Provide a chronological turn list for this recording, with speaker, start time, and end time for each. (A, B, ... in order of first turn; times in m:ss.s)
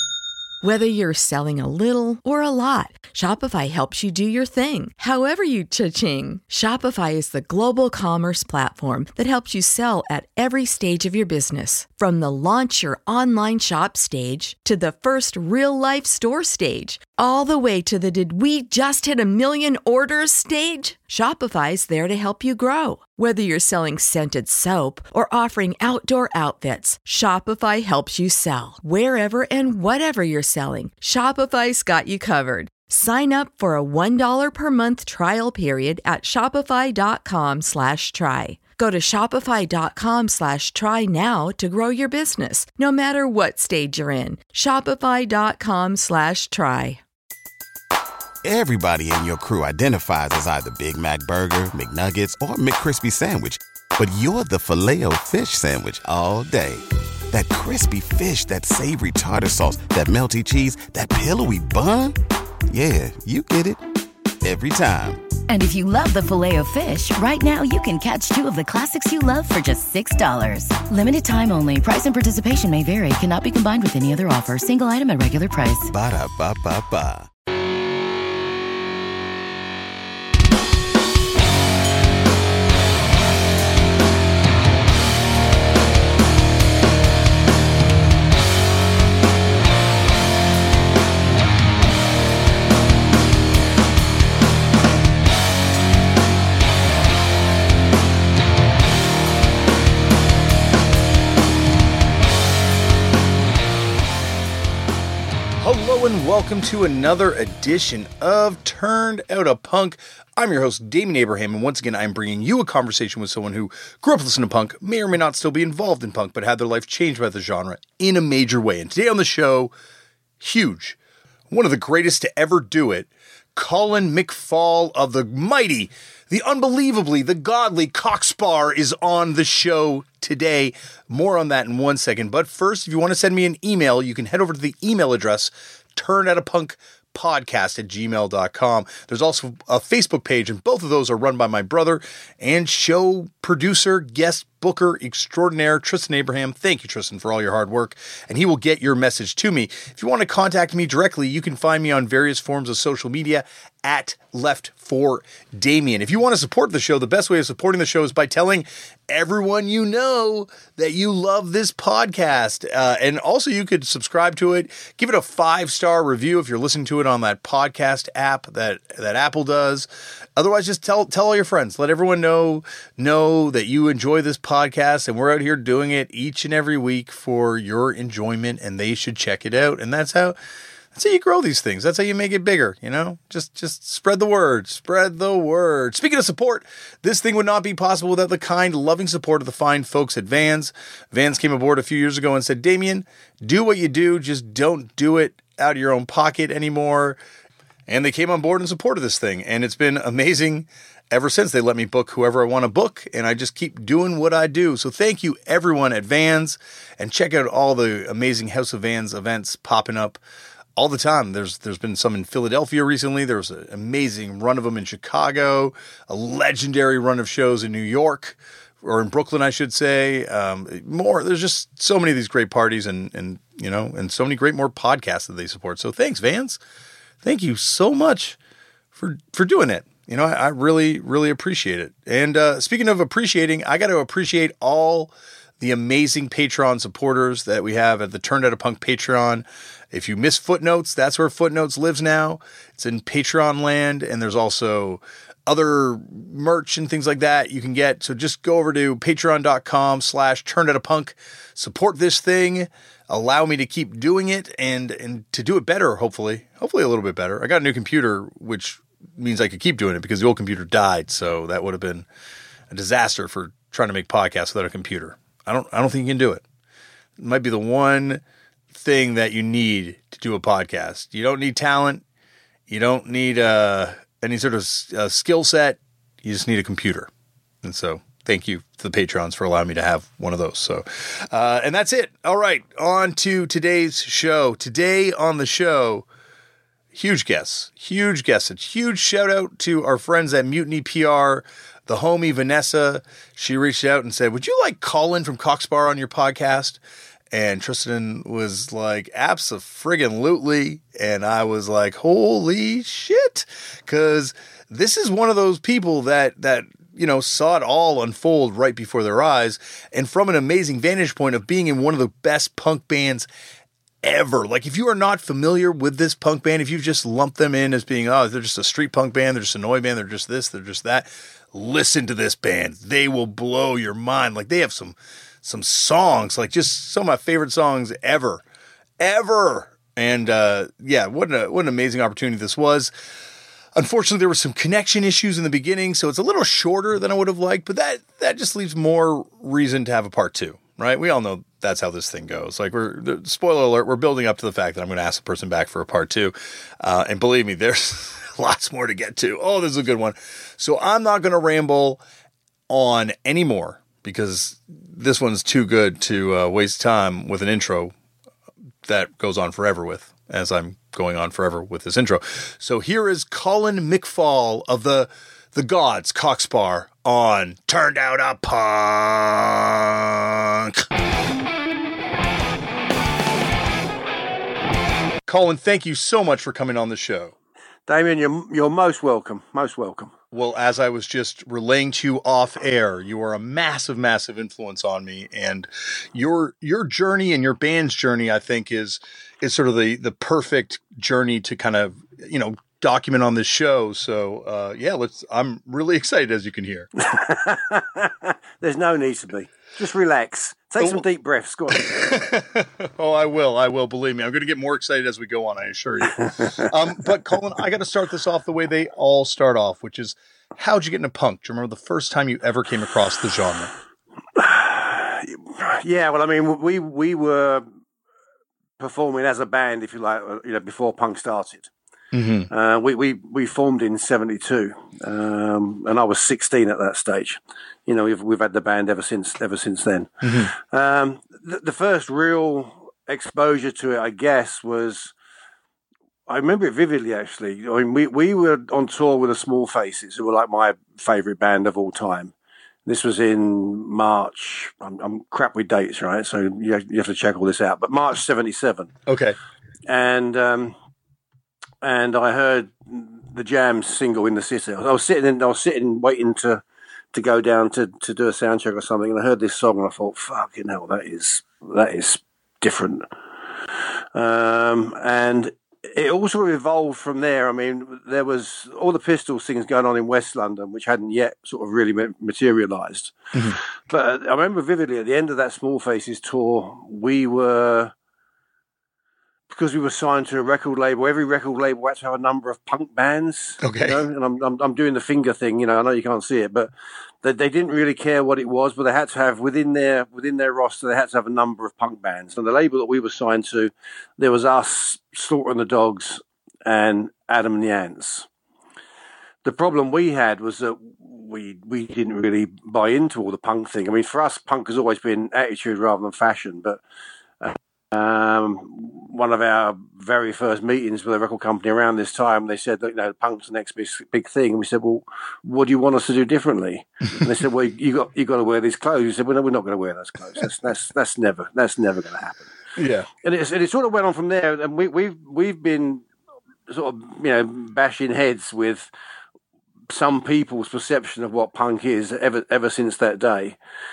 0:00.6-0:47.0 A
0:48.4-1:02.1 B
1:02.7-1:03.8 B
1:04.4-1:05.2 B
1:05.5-1:15.9 C
1:15.9-1:17.3 B
1:45.6-1:59.7 D
2:00.4-2:01.0 D
2:01.5-3:00.4 D
3:00.9-3:17.2 D
3:17.9-3:30.2 D
3:30.8-3:46.6 D
3:47.2-3:48.4 D
3:49.0-4:22.1 D
4:22.7-4:26.4 D
4:27.2-4:32.0 D
4:32.7-4:37.1 D
4:37.6-4:46.1 D
4:46.9-4:56.8 D
4:57.3-5:13.3 D
5:14.0-5:28.4 D
5:29.0-5:32.9 D
5:33.7-5:52.0 D
5:52.7-5:57.9 D
5:58.8-6:10.9 D
6:15.3-6:17.3 D
6:17.9-6:20.1 E
6:20.3-6:36.9 D
6:37.0-6:42.2 E
6:41.8-6:53.7 D
6:54.4-6:57.6 E
6:58.8-7:01.7 E
7:02.1-7:02.5 D
7:02.5-7:15.1 E
7:10.2-7:10.5 D
7:16.3-7:22.3 E
7:22.8-7:28.9 E
7:29.1-7:29.4 D
7:29.8-7:30.8 E
7:31.8-7:36.6 E
7:37.1-7:43.1 E
7:44.1-7:57.9 E
7:53.3-7:53.6 D
7:59.5-8:06.7 E
8:03.6-8:04.0 D
8:07.2-8:18.3 E
8:19.4-8:26.8 E
8:27.4-8:42.5 E
8:42.8-8:43.1 D
8:43.2-8:46.0 E
8:46.7-8:48.9 E
8:49.9-8:53.6 E